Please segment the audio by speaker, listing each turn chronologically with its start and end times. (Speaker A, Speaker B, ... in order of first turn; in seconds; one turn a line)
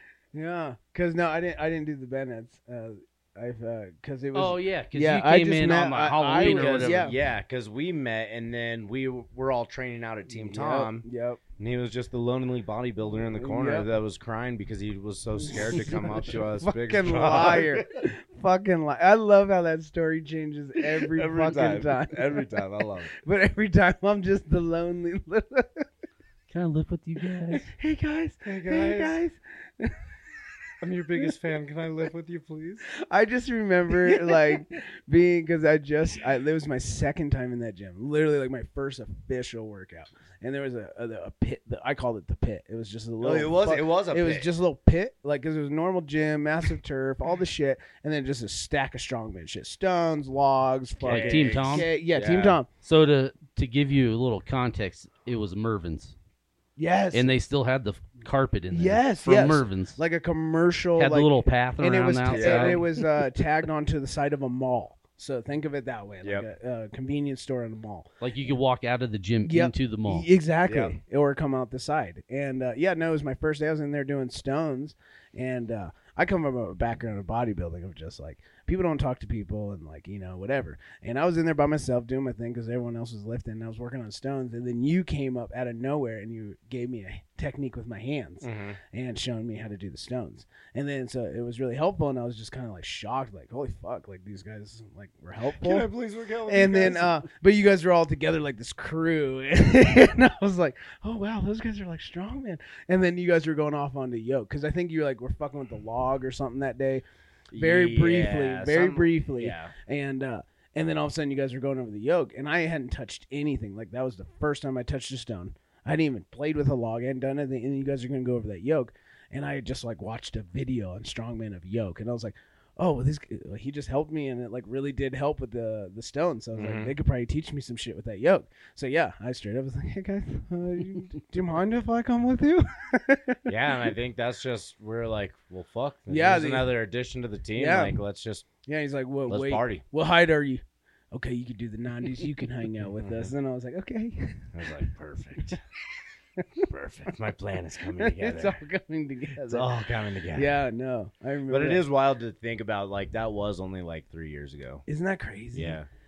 Speaker A: 0.3-7.2
Speaker B: 4.3-7.1
Speaker C: 6.3-11.1
Speaker A: 10.3-11.4
Speaker C: 11.6-18.0
Speaker A: 13.4-13.9
Speaker A: 15.4-22.5
Speaker C: 20.9-23.1
Speaker A: 23.1-25.9
Speaker B: 26.5-27.7
Speaker A: 27.5-30.1
Speaker C: 28.4-29.2
Speaker C: 30.8-32.9
Speaker A: 32.9-52.7
Speaker C: 33.9-34.6
Speaker C: 43.2-44.5
Speaker C: 51.0-52.6
Speaker B: 51.1-51.9
Speaker B: 52.8-56.1
Speaker A: 56.8-57.4
Speaker B: 57.1-60.0
Speaker A: 58.7-68.1
Speaker B: 61.0-62.8
Speaker C: 62.3-62.8
Speaker B: 68.2-70.3
Speaker A: 69.5-95.9
Speaker C: 70.7-71.0
Speaker C: 88.4-88.8
Speaker C: 95.5-97.2
Speaker A: 96.5-107.0
Speaker C: 107.5-109.7
Speaker A: 107.5-133.5
Speaker C: 126.5-127.0
Speaker C: 133.5-138.5
Speaker A: 136.1-136.8
Speaker A: 137.5-138.0
Speaker A: 138.7-144.8
Speaker C: 139.3-139.8
Speaker C: 142.9-143.3
Speaker C: 144.5-145.6
Speaker C: 146.6-148.6
Speaker A: 147.9-151.8
Speaker C: 149.4-150.6
Speaker C: 151.5-154.8
Speaker A: 154.9-155.8
Speaker C: 155.5-155.9